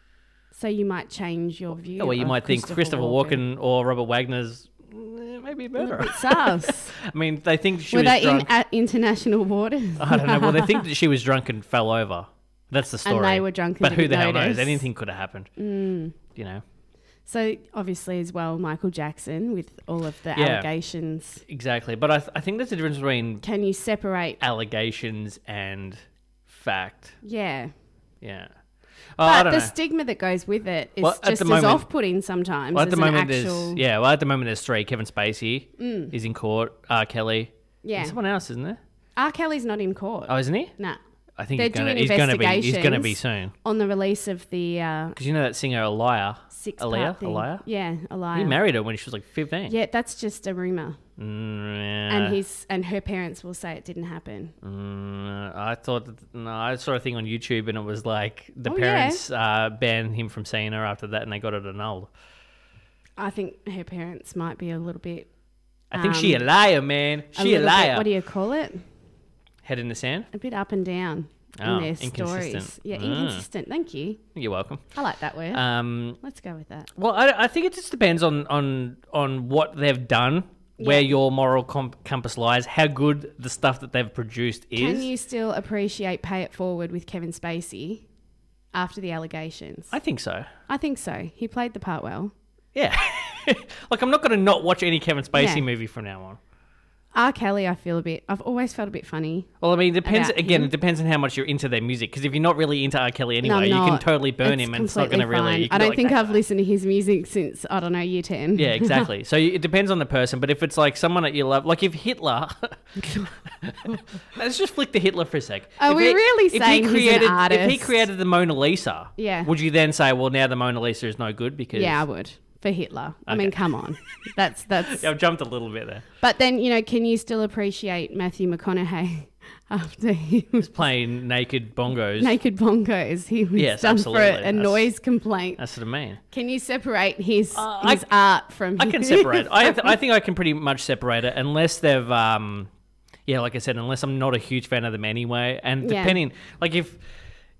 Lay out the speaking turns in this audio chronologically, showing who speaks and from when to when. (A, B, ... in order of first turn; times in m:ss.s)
0:00.5-0:03.4 A
0:02.0-0:08.5 B
0:05.8-0:06.9 A
0:07.9-0:10.8 A
0:10.0-0:15.5 B
0:13.0-0:14.8 A
0:15.6-0:16.2 A
0:16.3-0:16.6 B
0:17.2-0:21.4 A
0:20.3-0:20.7 B
0:21.4-0:23.4 B
0:23.4-0:24.4 A
0:24.4-0:27.2 B
0:27.2-0:27.7 A
0:28.2-0:28.5 B
0:29.2-0:29.7 B
0:29.2-0:33.8 A
0:31.0-0:31.9 B
0:32.7-0:38.8 B
0:35.8-0:36.1 A
0:37.8-0:38.2 A
0:39.2-0:41.0 A
0:40.3-0:40.7 B
0:41.4-0:43.5 B
0:41.5-0:45.2 A
0:45.2-0:47.6 B
0:46.5-0:48.6 A
0:48.3-0:49.7 B
0:49.7-0:51.0 A
0:51.2-0:52.4 B
0:52.1-0:54.5 A
0:54.6-1:02.1 B
0:58.6-0:59.2 A
1:03.2-1:05.3 A
1:05.9-1:06.4 A
1:05.9-1:08.1 B
1:07.3-1:08.8 A
1:09.6-1:10.3 B
1:10.3-1:14.2 A
1:11.6-1:13.4 B
1:14.3-1:14.8 B
1:14.9-1:15.6 A
1:15.5-1:16.2 B
1:16.2-1:16.9 A
1:16.9-1:25.1 B
1:20.8-1:21.1 A
1:24.8-1:28.0 A
1:28.7-1:29.9 A
1:29.9-1:30.5 B
1:30.7-1:32.3 A
1:32.7-1:36.4 B
1:35.3-1:35.6 A
1:37.1-1:39.5 A
1:39.6-1:46.4 B
1:40.0-1:40.7 A
1:43.4-1:49.1 A
1:48.5-2:02.0 B
1:53.0-1:53.3 A
1:55.8-1:58.0 A
1:59.2-1:59.5 A
2:01.7-2:05.1 A
2:03.3-2:03.7 B
2:04.9-2:06.0 B
2:06.2-2:10.7 A
2:10.6-2:12.4 B
2:12.2-2:15.6 A
2:13.5-2:14.9 B
2:15.6-2:16.2 B
2:16.3-2:19.9 A
2:17.5-2:18.1 B
2:18.8-2:22.7 B
2:23.3-2:27.0 B
2:25.8-2:26.2 A